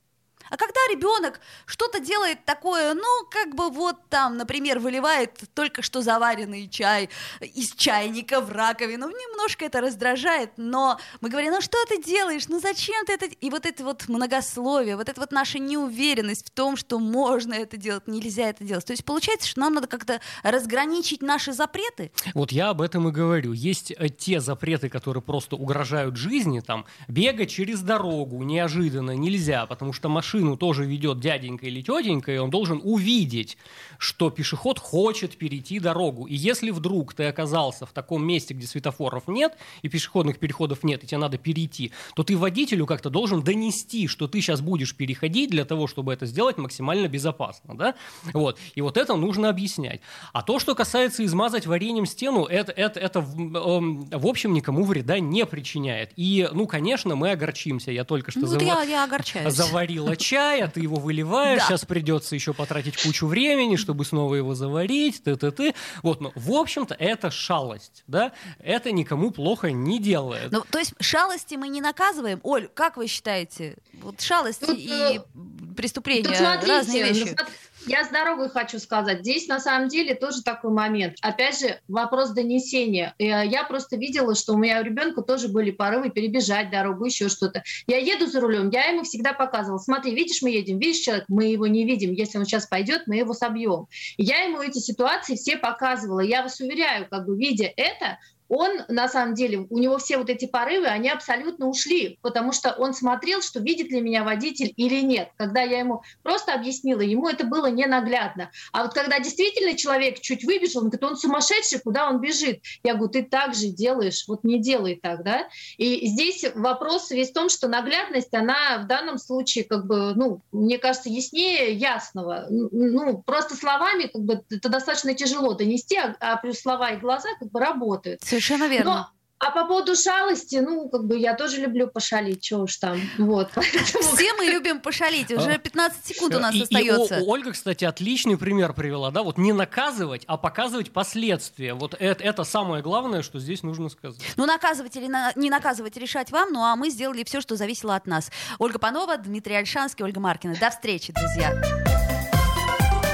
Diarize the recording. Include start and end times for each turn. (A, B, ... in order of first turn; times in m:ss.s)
0:00.5-0:22.2 A
0:22.3-0:58.8 B
0:58.4-0:59.8 A
0:59.4-1:10.5 B
1:01.5-1:01.7 A
1:10.5-1:17.4 A
1:14.6-1:15.2 C
1:16.2-2:08.2 C
2:08.2-2:09.0 A
2:08.8-2:14.5 C
2:13.8-2:17.2 A
2:16.3-2:24.2 B
2:24.3-2:31.6 A